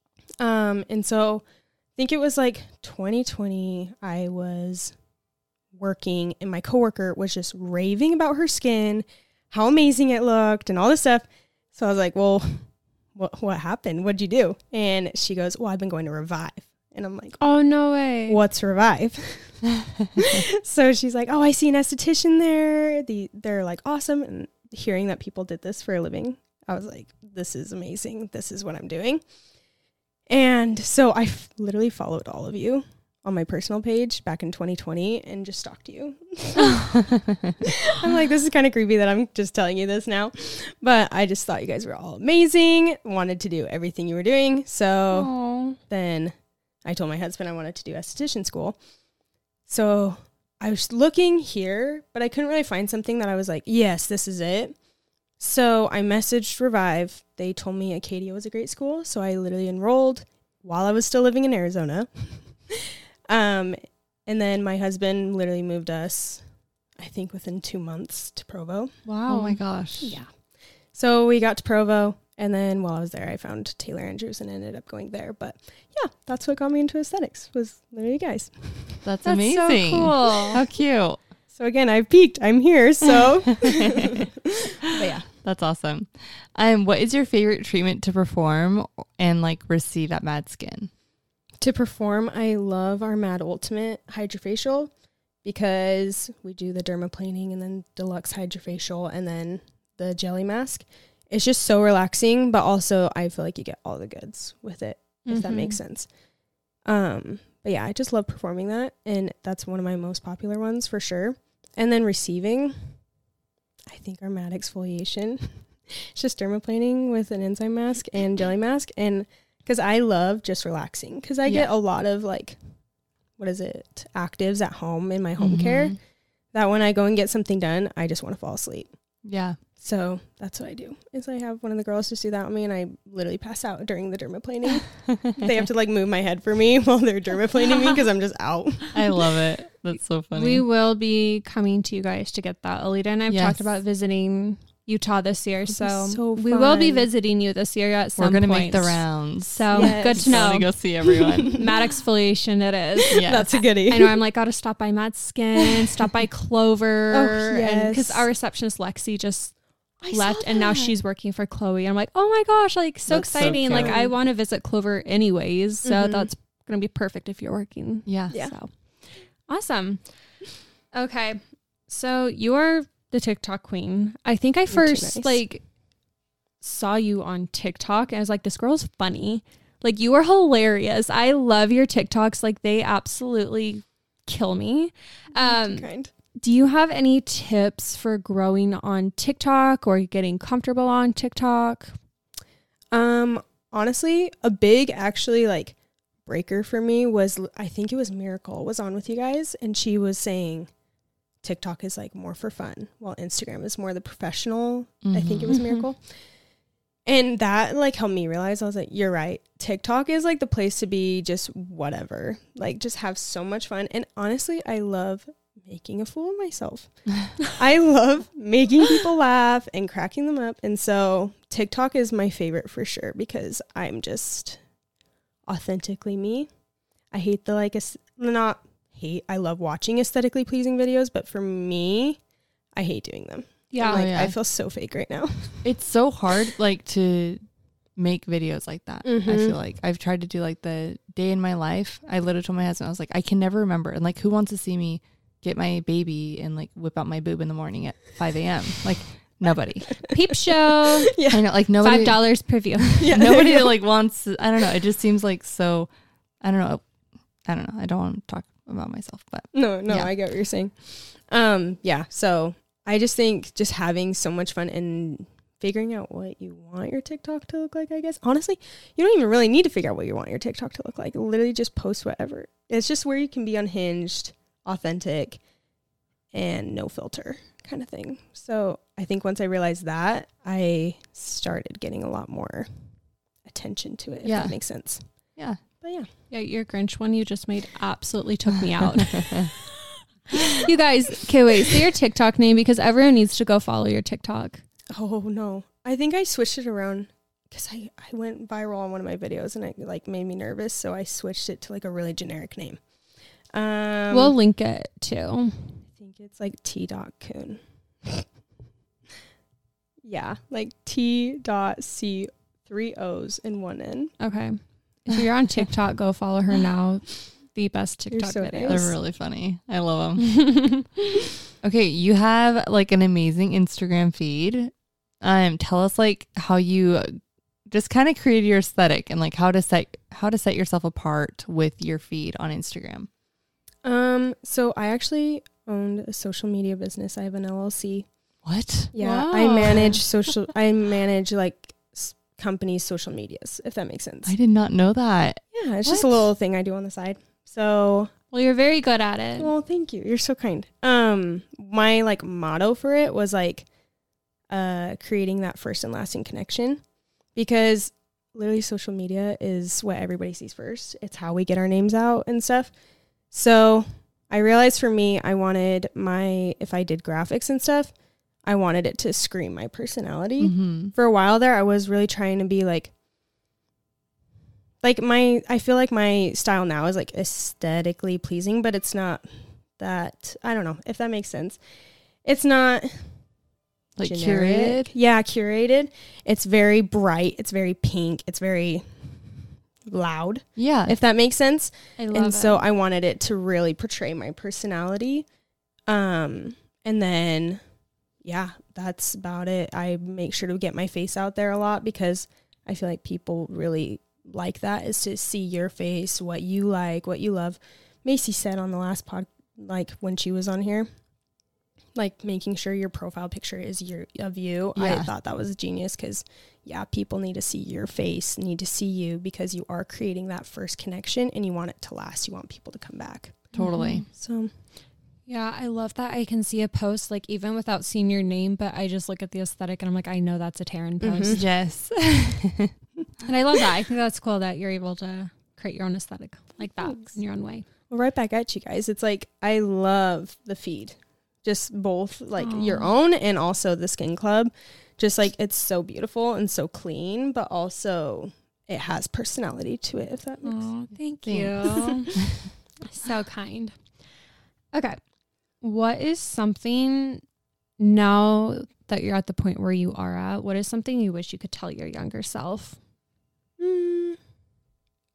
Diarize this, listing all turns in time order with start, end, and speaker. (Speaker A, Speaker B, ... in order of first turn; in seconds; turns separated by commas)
Speaker A: 0.4-1.4, Speaker A: 2.0-5.0, Speaker A: 5.7-17.4, Speaker B: 17.4-18.4, Speaker A: 18.3-19.6, Speaker A: 20.2-29.2, Speaker A: 30.3-37.0, Speaker C: 37.1-37.5, Speaker A: 37.6-48.8, Speaker B: 45.1-45.8, Speaker A: 49.7-54.8, Speaker A: 55.4-66.4, Speaker A: 67.0-68.9, Speaker B: 69.1-70.2, Speaker C: 69.3-70.2, Speaker A: 70.9-79.0, Speaker C: 79.0-81.2, Speaker B: 79.2-80.6, Speaker A: 81.5-85.2, Speaker C: 83.5-84.3, Speaker C: 84.8-90.9, Speaker A: 91.6-94.9, Speaker A: 95.4-106.1, Speaker B: 105.3-105.8, Speaker A: 106.9-112.9, Speaker A: 113.9-122.6, Speaker C: 121.5-121.7, Speaker A: 123.4-126.0, Speaker C: 125.4-126.0, Speaker A: 126.5-128.9, Speaker C: 129.2-129.6, Speaker A: 129.8-139.3, Speaker C: 138.9-140.6, Speaker B: 140.3-150.7, Speaker C: 143.3-143.6, Speaker A: 145.7-147.1, Speaker C: 148.2-151.7, Speaker A: 149.7-150.5, Speaker A: 151.2-151.7, Speaker B: 151.5-159.5, Speaker A: 153.1-154.2, Speaker C: 153.1-153.5, Speaker A: 157.1-158.3, Speaker A: 160.0-160.9, Speaker B: 160.1-168.7, Speaker C: 163.1-164.0, Speaker A: 163.2-164.1, Speaker A: 165.8-166.3, Speaker C: 168.1-168.4, Speaker B: 169.5-170.0, Speaker B: 170.9-175.6, Speaker A: 174.7-175.4, Speaker B: 176.6-185.9, Speaker A: 185.4-186.1, Speaker B: 186.4-191.9, Speaker A: 192.9-200.7, Speaker A: 201.4-206.0, Speaker C: 205.0-205.8, Speaker A: 207.1-224.6, Speaker A: 225.5-226.5, Speaker A: 227.1-232.2, Speaker A: 232.8-235.7, Speaker B: 233.7-234.1, Speaker C: 233.8-234.3, Speaker C: 235.6-237.4, Speaker C: 238.0-250.0, Speaker A: 239.1-239.6, Speaker B: 250.1-251.2, Speaker A: 250.7-251.5, Speaker C: 251.3-252.3, Speaker B: 251.8-253.1, Speaker C: 252.9-255.9, Speaker A: 253.0-253.8, Speaker C: 256.4-256.8, Speaker C: 257.5-260.1, Speaker A: 259.5-275.4, Speaker A: 276.3-282.7, Speaker A: 283.4-285.0, Speaker C: 284.2-284.6, Speaker A: 285.8-286.1, Speaker B: 286.3-289.5, Speaker B: 290.4-294.6, Speaker A: 294.9-302.8, Speaker A: 303.5-304.4, Speaker B: 304.1-305.8, Speaker A: 305.9-308.3, Speaker A: 310.0-314.1, Speaker B: 314.2-318.9, Speaker A: 318.1-318.9, Speaker C: 318.7-320.5, Speaker B: 320.2-320.9, Speaker C: 321.6-327.2, Speaker C: 327.7-333.1, Speaker A: 333.8-338.1, Speaker C: 338.4-340.0, Speaker A: 338.9-344.3, Speaker C: 344.3-346.1, Speaker A: 345.5-348.1, Speaker B: 348.3-349.5, Speaker A: 349.4-353.7, Speaker A: 354.5-356.8, Speaker A: 357.4-362.7, Speaker A: 363.3-367.9, Speaker A: 368.4-372.9, Speaker C: 370.4-370.9, Speaker A: 374.8-379.3, Speaker A: 379.8-381.6, Speaker A: 382.2-383.1, Speaker C: 384.0-384.9, Speaker A: 384.0-395.3, Speaker C: 390.6-391.0, Speaker B: 392.0-392.6, Speaker A: 395.9-397.6, Speaker A: 398.2-410.9, Speaker A: 411.9-423.5, Speaker C: 414.8-415.1, Speaker C: 423.5-424.0, Speaker B: 423.6-424.1, Speaker A: 424.1-424.5, Speaker B: 425.3-431.4, Speaker A: 431.0-431.4, Speaker C: 431.3-432.7, Speaker B: 433.2-437.6, Speaker A: 437.9-450.7, Speaker B: 442.4-442.9, Speaker B: 450.4-452.2, Speaker C: 451.2-452.3, Speaker B: 452.8-453.8, Speaker B: 454.7-455.0, Speaker B: 455.6-457.2, Speaker B: 457.8-462.8, Speaker A: 463.6-464.2